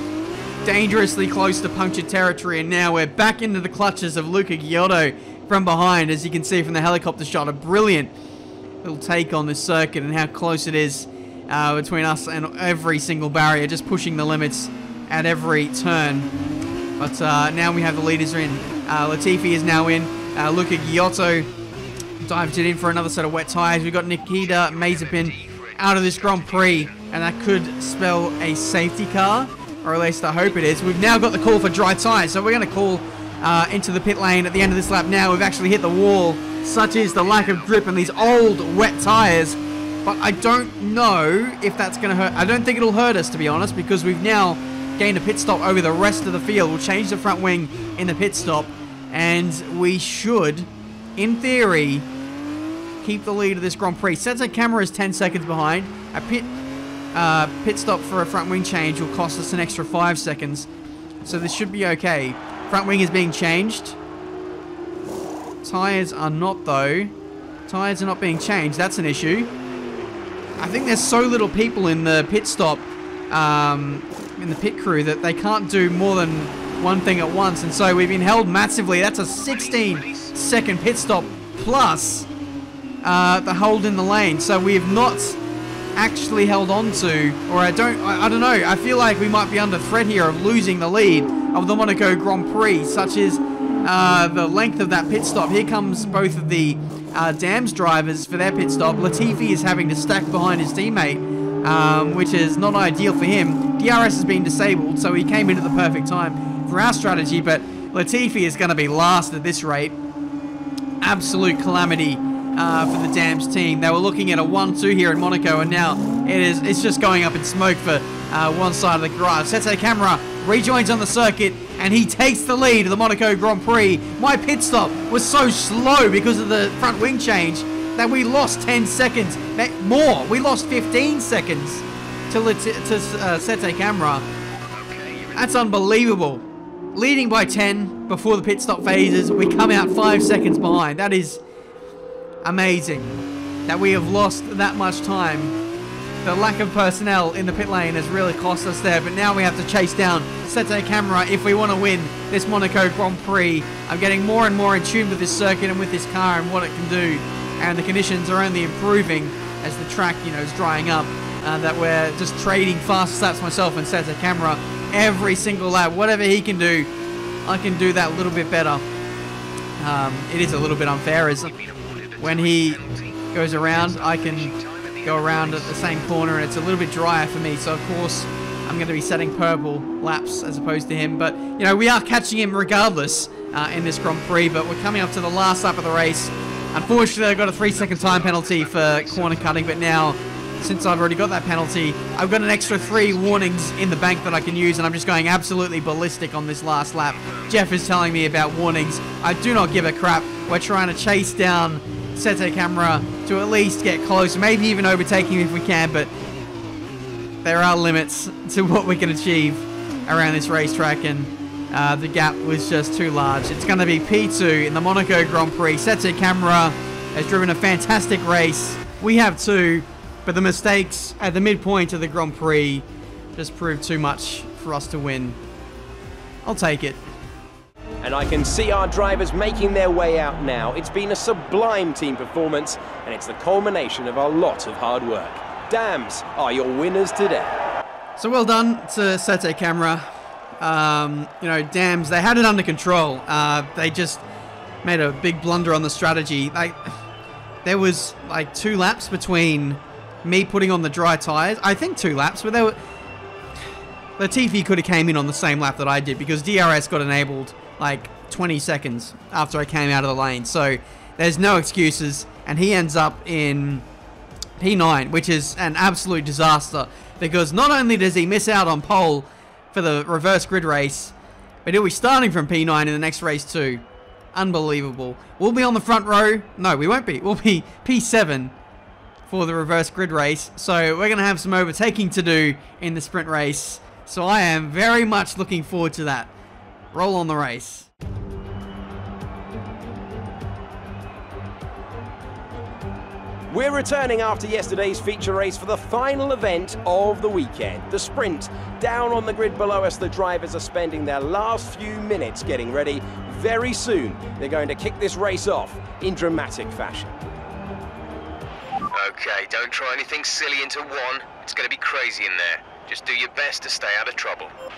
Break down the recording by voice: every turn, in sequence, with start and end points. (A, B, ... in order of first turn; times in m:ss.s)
0:00.6-0:08.1 A
0:08.8-0:16.3 A
0:17.0-0:21.5 A
0:22.2-0:52.1 A
0:24.3-0:27.0 B
0:37.0-0:38.5 B
0:53.0-0:56.5 A
0:57.1-1:00.7 A
1:01.2-1:04.0 A
1:05.6-1:07.1 A
1:07.7-1:09.5 A
1:10.6-1:22.3 A
1:19.4-1:20.3 B
1:23.0-1:25.4 A
1:26.0-1:50.0 A
1:51.0-2:14.2 A
2:14.7-2:15.4 B
2:15.3-2:21.4 A
2:22.4-2:25.6 A
2:26.2-2:46.9 A
2:47.4-2:48.8 A
2:49.8-2:51.5 A
2:51.3-2:55.9 B
2:52.2-2:52.8 A
2:53.3-3:26.1 A
3:07.3-3:09.5 B
3:12.4-3:14.7 B
3:17.1-3:17.6 B
3:27.4-3:45.4 A
3:46.4-3:47.0 A
3:48.0-3:57.5 C
3:58.2-4:00.0 A
4:00.6-4:04.2 A
4:04.8-4:06.9 A
4:07.6-4:12.8 A
4:14.2-4:23.8 A
4:24.6-4:31.1 A
4:31.6-4:38.5 A
4:39.3-4:46.3 A
4:46.9-4:47.9 A
4:53.5-5:07.2 C
5:08.9-5:14.5 B